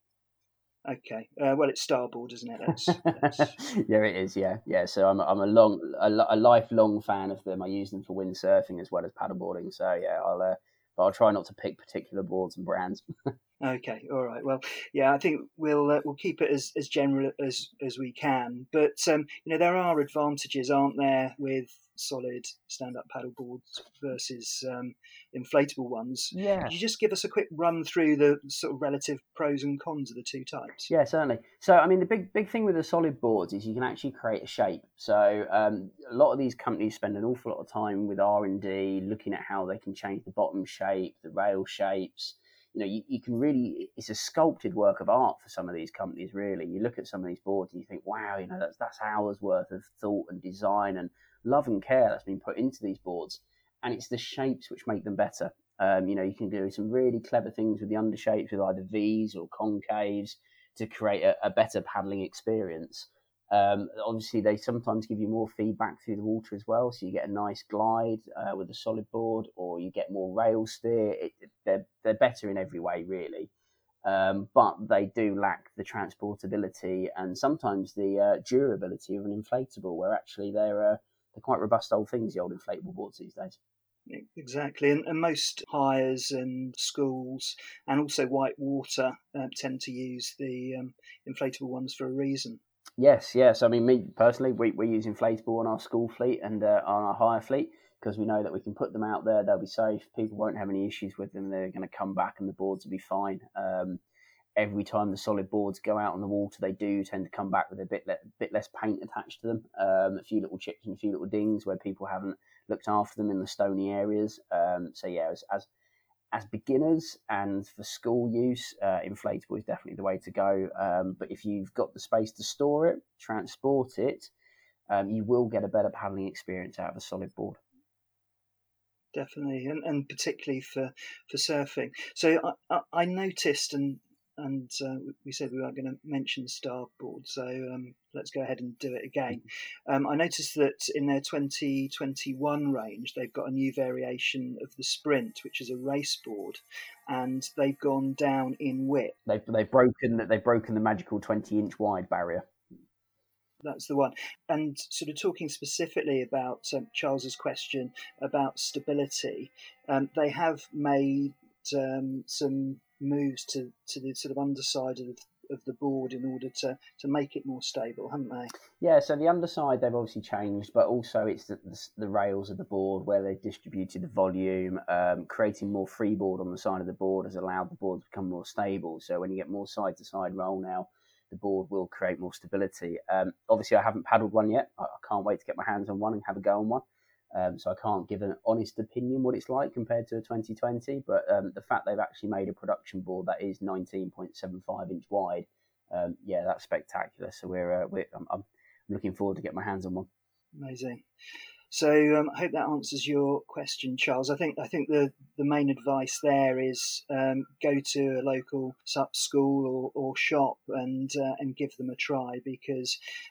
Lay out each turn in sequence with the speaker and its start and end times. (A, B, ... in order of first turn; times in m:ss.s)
0:00.9-0:03.6 A
0:03.0-0:13.0 B
0:13.6-0:30.9 A
0:26.3-0:26.7 B
0:30.9-1:13.5 B
1:14.0-1:23.6 B
1:24.1-1:32.6 A
1:33.0-1:44.0 B
1:44.6-1:55.7 B
1:56.3-2:04.3 B
2:04.9-2:07.6 B
2:09.1-2:29.2 A
2:29.3-2:32.5 B
2:33.6-2:48.5 A
2:48.8-3:20.1 B
3:20.6-3:21.0 A
3:21.7-3:33.0 A